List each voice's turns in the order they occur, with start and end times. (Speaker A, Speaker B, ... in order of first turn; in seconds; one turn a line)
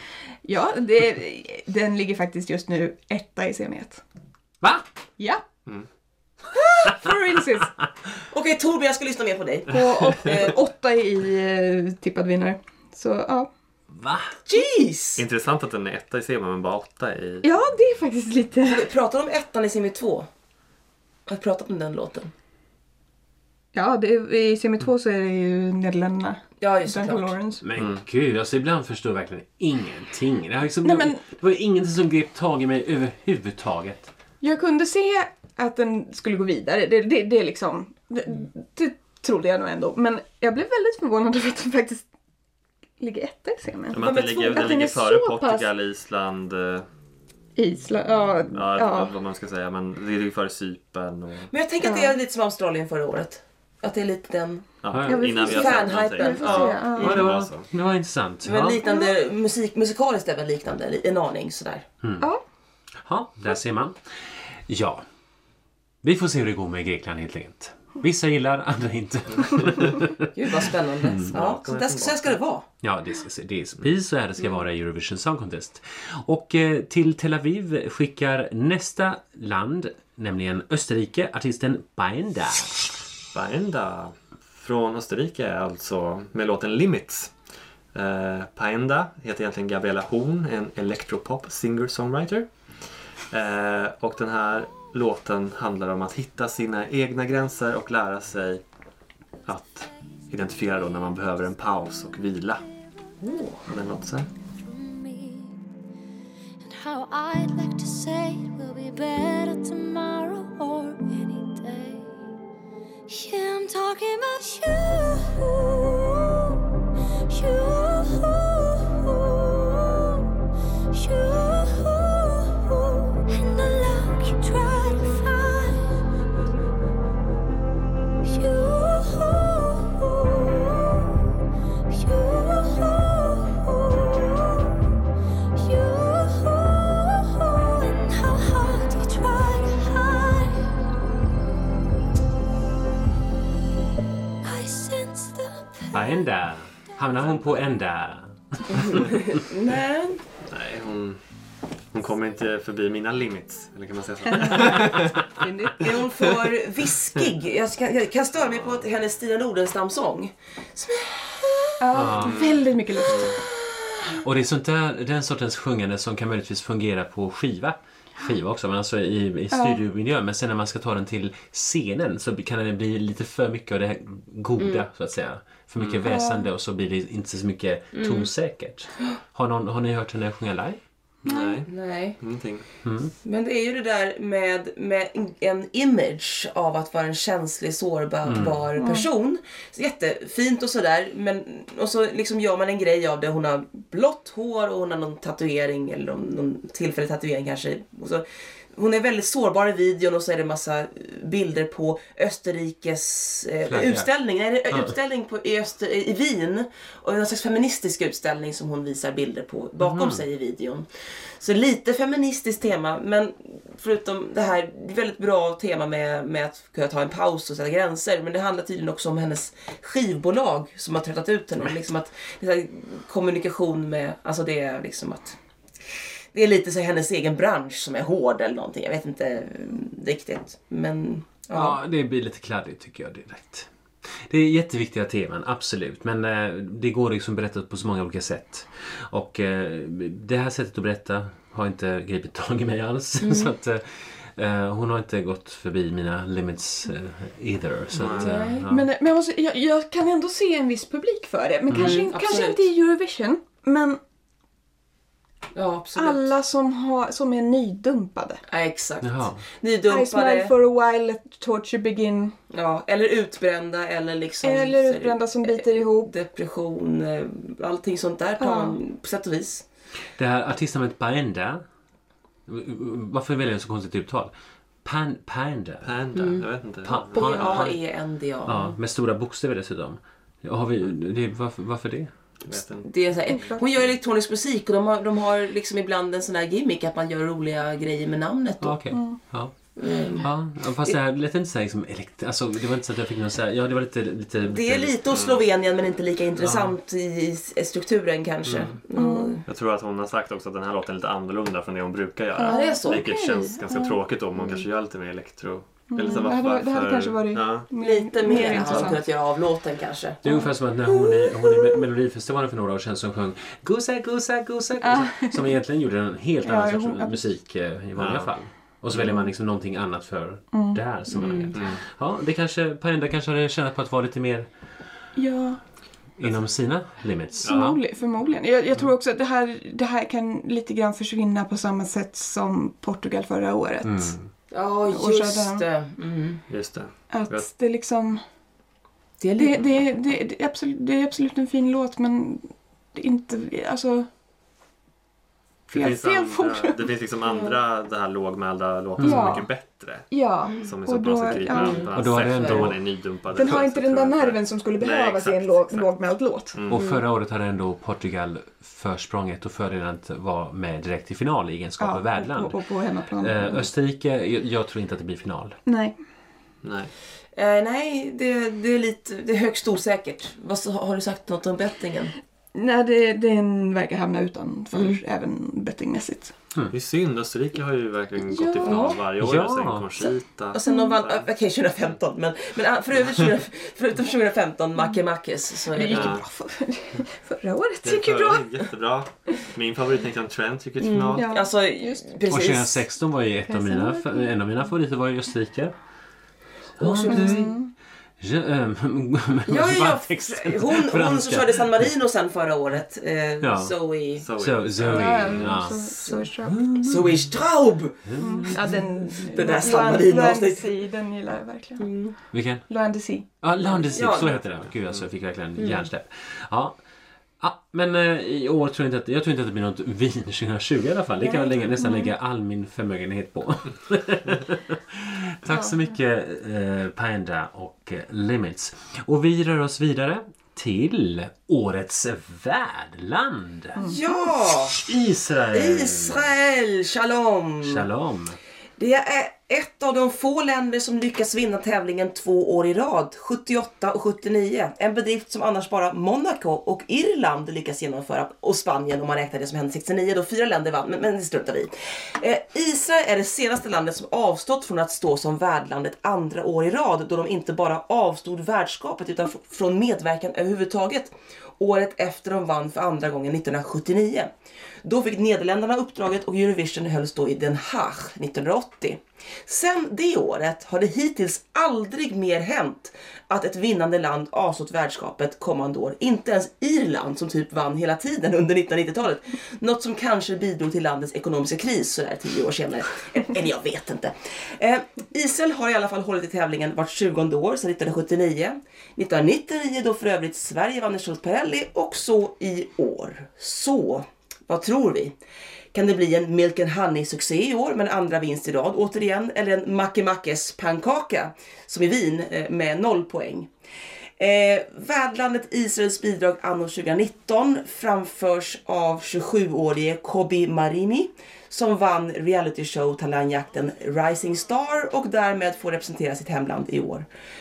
Speaker A: 0.4-4.0
Speaker A: 6.5-7.7
Speaker B: 8.3-10.6
Speaker A: 9.7-13.5
Speaker C: 13.9-14.3
Speaker B: 14.5-15.2
Speaker D: 15.2-17.5
Speaker A: 17.4-18.9
Speaker B: 18.6-20.3
Speaker B: 21.3-22.3
Speaker A: 23.7-27.6
Speaker B: 26.6-27.3
Speaker C: 27.6-34.1
Speaker A: 30.8-31.2
Speaker A: 34.4-42.1
Speaker A: 43.0-45.7
Speaker D: 43.9-46.9
Speaker B: 43.9-44.8
Speaker A: 47.6-49.1
Speaker D: 48.5-51.5
Speaker B: 51.5-54.7
Speaker A: 51.8-52.1
Speaker D: 54.8-57.7
Speaker C: 54.9-55.4
Speaker A: 55.1-57.2
Speaker B: 55.4-57.2
Speaker C: 57.0-58.8
Speaker B: 58.4-61.8
Speaker C: 62.0-62.3
Speaker C: 63.0-65.0
Speaker C: 66.0-71.3
Speaker D: 69.3-69.9
Speaker B: 70.2-72.6
Speaker D: 71.3-72.4
Speaker C: 72.8-82.9
Speaker D: 83.3-87.3
Speaker D: 87.9-92.5
Speaker D: 93.3-98.6
Speaker D: 99.5-102.6
Speaker B: 103.2-103.6
Speaker D: 103.6-104.3
Speaker E: 104.6-105.6
Speaker E: 106.6-112.1
Speaker E: 113.1-116.6
Speaker E: 117.3-120.3
Speaker E: 120.9-125.9
Speaker E: 128.2-131.3
Speaker E: 131.9-134.8
Speaker E: 135.6-140.7
Speaker E: 144.4-146.2
Speaker C: 145.9-149.4
Speaker D: 147.2-147.6
Speaker B: 148.7-150.2
Speaker D: 150.4-151.2
Speaker D: 151.9-155.3
Speaker A: 154.3-155.9
Speaker C: 154.8-155.0
Speaker B: 155.8-161.8
Speaker D: 156.2-156.5
Speaker D: 158.5-158.8
Speaker A: 161.8-163.3
Speaker C: 161.9-162.4
Speaker D: 162.2-163.4
Speaker B: 163.0-164.2
Speaker C: 164.1-180.8
Speaker A: 169.5-169.8
Speaker B: 174.6-174.8
Speaker D: 175.8-176.1
Speaker A: 176.1-176.5
Speaker B: 177.9-178.3
Speaker D: 181.2-182.6
Speaker A: 181.2-181.6
Speaker B: 181.7-182.2
Speaker C: 182.8-183.1
Speaker B: 183.2-210.9
Speaker C: 188.2-188.6
Speaker A: 188.8-189.1
Speaker C: 203.7-204.1
Speaker C: 204.7-204.9
Speaker C: 209.8-210.2
Speaker B: 211.4-225.4
Speaker B: 226.3-231.8
Speaker C: 231.5-248.9
Speaker B: 243.2-243.5
Speaker D: 247.9-248.3
Speaker B: 248.2-248.7
Speaker A: 248.6-254.0
Speaker C: 251.7-252.0
Speaker B: 251.7-252.7
Speaker B: 255.5-256.3
Speaker A: 255.9-258.4
Speaker B: 258.5-260.5
Speaker C: 259.0-259.4
Speaker A: 259.9-262.3
Speaker B: 262.5-269.6
Speaker A: 264.4-266.1
Speaker A: 268.4-268.8
Speaker C: 270.2-271.6
Speaker C: 272.5-274.3
Speaker C: 274.8-275.9
Speaker D: 275.8-277.7
Speaker B: 276.1-276.4
Speaker C: 276.8-277.8
Speaker B: 277.1-278.7
Speaker C: 278.4-282.1
Speaker D: 282.4-283.0
Speaker B: 282.8-288.8
Speaker A: 283.3-283.6
Speaker C: 288.6-289.5
Speaker A: 288.9-289.2
Speaker B: 289.8-290.3
Speaker C: 290.2-295.0
Speaker B: 294.4-299.4
Speaker D: 295.1-295.4
Speaker C: 296.4-296.7
Speaker D: 298.5-298.7
Speaker A: 298.9-299.4
Speaker D: 299.5-307.7
Speaker A: 302.4-304.0
Speaker B: 302.4-303.1
Speaker B: 304.4-304.6
Speaker A: 305.9-309.0
Speaker B: 307.7-310.2
Speaker D: 308.4-308.9
Speaker C: 310.2-324.5
Speaker B: 311.0-311.8
Speaker A: 314.8-315.5
Speaker A: 316.4-317.2
Speaker D: 318.0-318.3
Speaker A: 320.5-320.8
Speaker B: 321.1-321.6
Speaker D: 321.5-321.8
Speaker A: 325.1-325.6
Speaker C: 326.2-327.8
Speaker A: 327.4-334.1
Speaker D: 327.4-327.7
Speaker C: 333.8-334.3
Speaker B: 334.5-336.4
Speaker A: 334.9-335.6
Speaker D: 336.5-337.4
Speaker A: 337.1-338.2
Speaker B: 339.2-339.6
Speaker A: 339.4-344.1
Speaker D: 345.7-355.9
Speaker A: 345.7-346.9
Speaker B: 347.2-347.6
Speaker C: 349.0-349.4
Speaker A: 349.0-349.5
Speaker A: 350.1-351.8
Speaker B: 351.5-352.7
Speaker C: 351.9-352.8
Speaker A: 353.3-356.6
Speaker D: 356.5-356.9
Speaker C: 356.7-362.6
Speaker B: 356.7-357.0
Speaker A: 361.8-363.7
Speaker C: 363.2-365.6
Speaker A: 365.6-365.9
Speaker D: 366.6-366.9
Speaker B: 367.3-372.1
Speaker A: 372.5-376.3
Speaker B: 374.7-375.0
Speaker D: 376.7-381.2
Speaker A: 378.2-378.9
Speaker B: 378.6-379.0
Speaker C: 379.2-380.0
Speaker B: 380.5-386.2
Speaker A: 380.6-381.0
Speaker A: 385.7-388.6
Speaker D: 385.9-386.2
Speaker D: 387.8-391.3
Speaker B: 390.8-392.8
Speaker A: 391.1-392.1
Speaker C: 392.3-395.7
Speaker A: 393.5-394.3
Speaker C: 396.8-397.6
Speaker B: 396.8-397.5
Speaker A: 397.1-397.7
Speaker C: 398.2-401.9
Speaker B: 399.5-404.3
Speaker C: 403.4-403.7
Speaker D: 404.2-405.6
Speaker C: 404.4-405.9
Speaker A: 404.8-406.6
Speaker B: 405.9-410.7
Speaker C: 406.4-407.3
Speaker C: 408.0-408.7
Speaker A: 408.2-411.9
Speaker B: 411.8-412.1
Speaker C: 412.3-412.6
Speaker A: 412.7-413.2
Speaker C: 413.4-416.8
Speaker B: 413.9-414.4
Speaker D: 413.9-415.1
Speaker B: 415.6-415.9
Speaker C: 417.4-433.9
Speaker A: 421.2-422.1
Speaker A: 433.8-434.2
Speaker B: 433.8-434.8
Speaker C: 434.7-436.3
Speaker B: 435.5-437.9
Speaker C: 437.6-438.4
Speaker B: 438.8-464.3
Speaker B: 464.8-495.1
Speaker B: 495.7-503.5
Speaker B: 504.2-517.1